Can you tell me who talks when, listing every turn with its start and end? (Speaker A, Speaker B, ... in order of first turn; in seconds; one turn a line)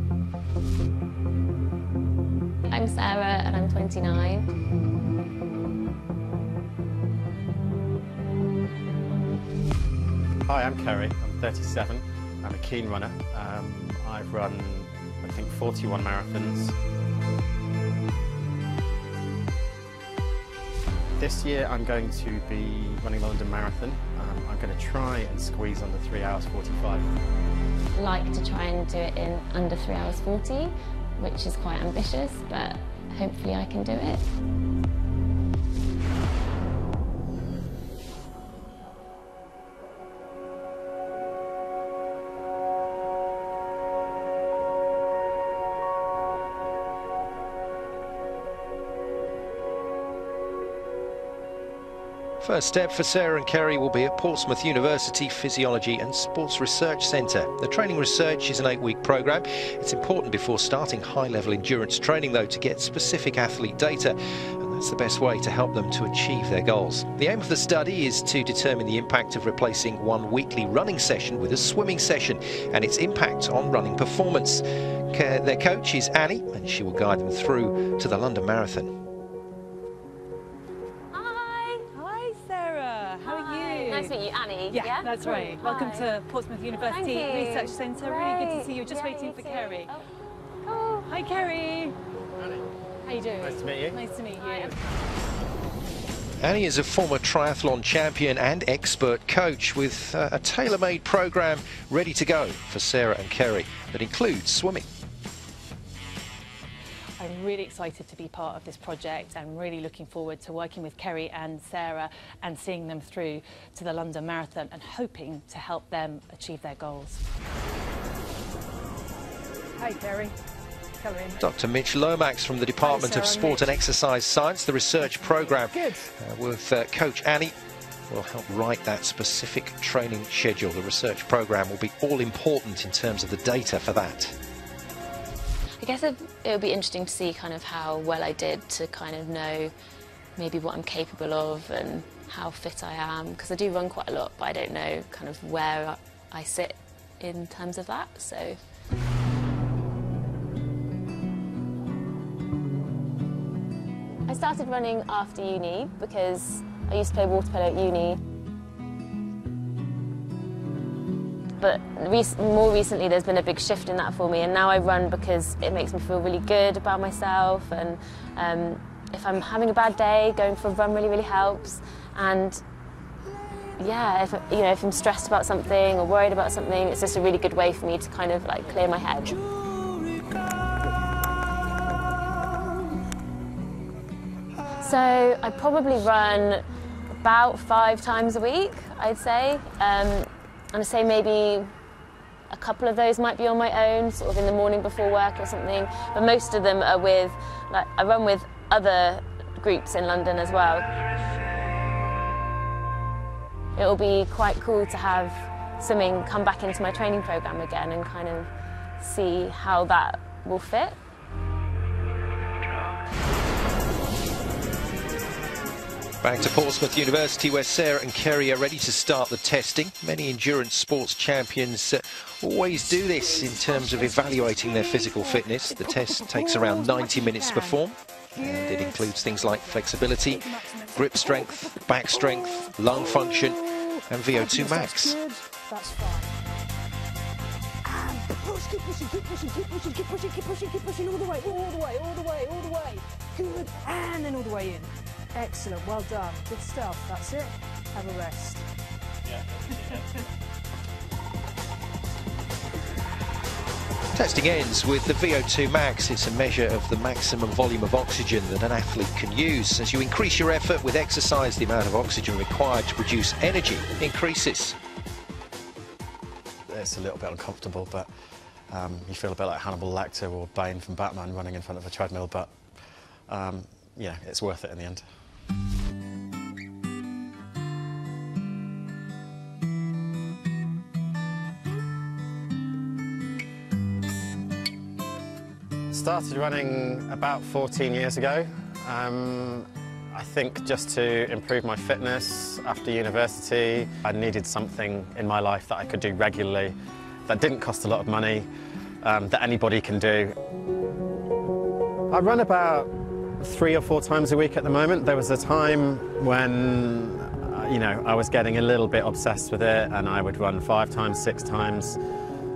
Speaker A: 2.7-4.5
Speaker B: 10.5-16.8
Speaker B: 21.2-27.1
Speaker A: 28.0-34.2
Speaker C: 52.4-78.9
Speaker A: 81.1-81.9
Speaker D: 81.9-84.2
Speaker A: 83.2-86.1
Speaker D: 84.7-89.9
Speaker A: 86.7-90.1
Speaker A: 90.6-91.1
Speaker D: 91.1-92.0
Speaker D: 93.0-94.8
Speaker B: 93.4-94.0
Speaker A: 94.4-94.8
Speaker C: 96.4-104.9
Speaker D: 107.2-117.2
Speaker E: 119.8-120.4
Speaker E: 121.0-121.4
Speaker C: 121.4-127.5
Speaker E: 122.8-123.7
Speaker E: 125.3-126.0
Speaker C: 128.1-134.3
Speaker A: 135.8-139.7
Speaker A: 140.4-148.6
Speaker A: 154.3-158.2
Speaker A: 161.6-172.6
Speaker A: 173.8-179.4
Speaker A: 184.8-191.7
Speaker A: 192.5-200.9
Speaker A: 203.8-211.0
Speaker C: 216.2-235.2
Speaker E: 226.9-227.7
Speaker E: 228.3-229.7
Speaker E: 234.3-236.3
Speaker E: 237.8-248.7
Speaker C: 254.1-264.8
Speaker B: 266.7-268.1
Speaker B: 268.7-272.5
Speaker B: 273.3-275.0
Speaker B: 285.9-296.8
Speaker B: 297.3-298.5
Speaker B: 299.0-300.4
Speaker B: 302.1-312.0